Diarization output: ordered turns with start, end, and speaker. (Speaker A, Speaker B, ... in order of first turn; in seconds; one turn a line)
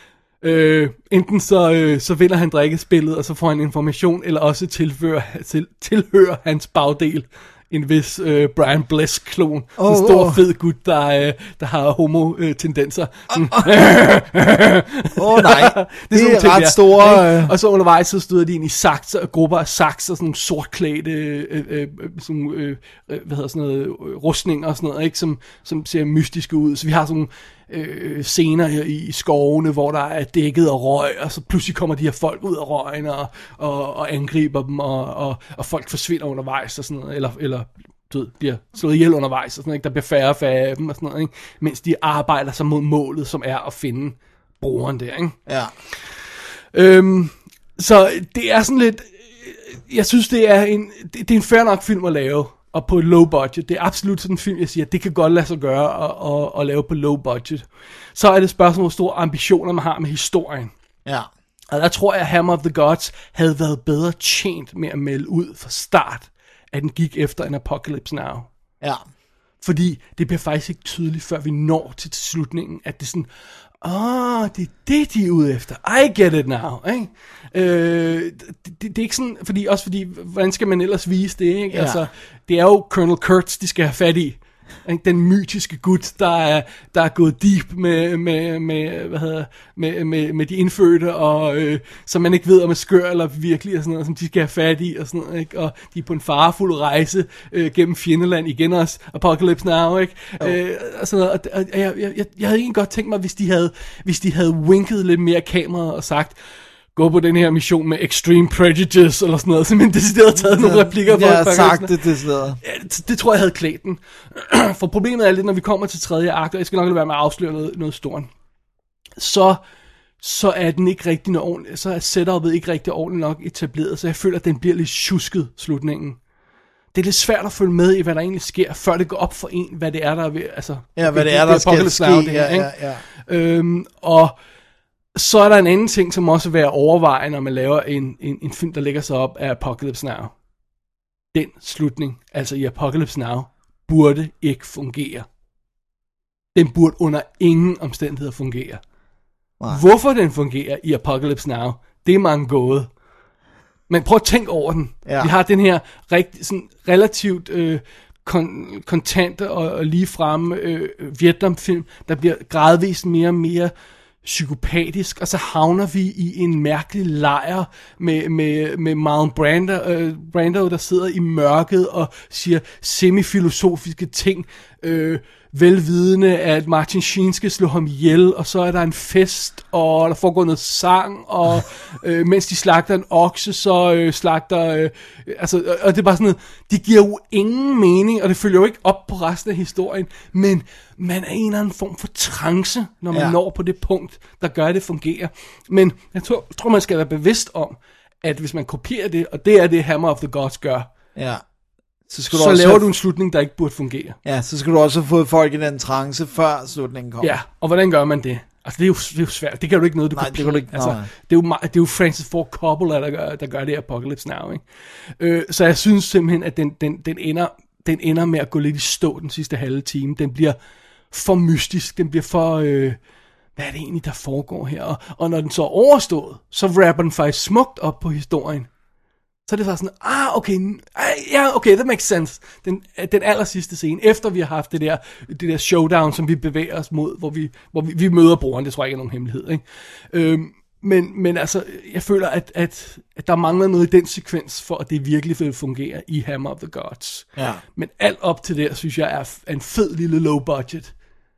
Speaker A: 0.4-45.4
Speaker B: 9.8-10.4
Speaker B: 13.3-13.7
Speaker B: 15.2-17.5
Speaker B: 45.5-45.7
Speaker A: 46.7-60.7
Speaker A: 61.7-68.5
Speaker A: 69.6-73.3
Speaker A: 73.8-106.4
Speaker B: 81.7-82.1
Speaker A: 106.9-112.0
Speaker B: 110.5-112.6
Speaker A: 112.6-118.3
Speaker A: 119.2-119.6
Speaker A: 120.2-126.2
Speaker A: 126.9-134.3
Speaker B: 130.9-133.0
Speaker A: 135.2-140.3
Speaker A: 141.3-145.3
Speaker A: 146.6-148.8
Speaker A: 149.7-152.9
Speaker A: 153.9-163.7
Speaker B: 155.1-155.3
Speaker A: 164.2-200.9
Speaker B: 201.2-201.4
Speaker B: 202.1-202.9
Speaker A: 202.3-204.2
Speaker B: 204.2-207.3
Speaker A: 207.2-220.6
Speaker B: 210.1-211.1
Speaker A: 221.1-223.0
Speaker A: 223.6-228.7
Speaker A: 229.5-250.9
Speaker B: 247.4-247.6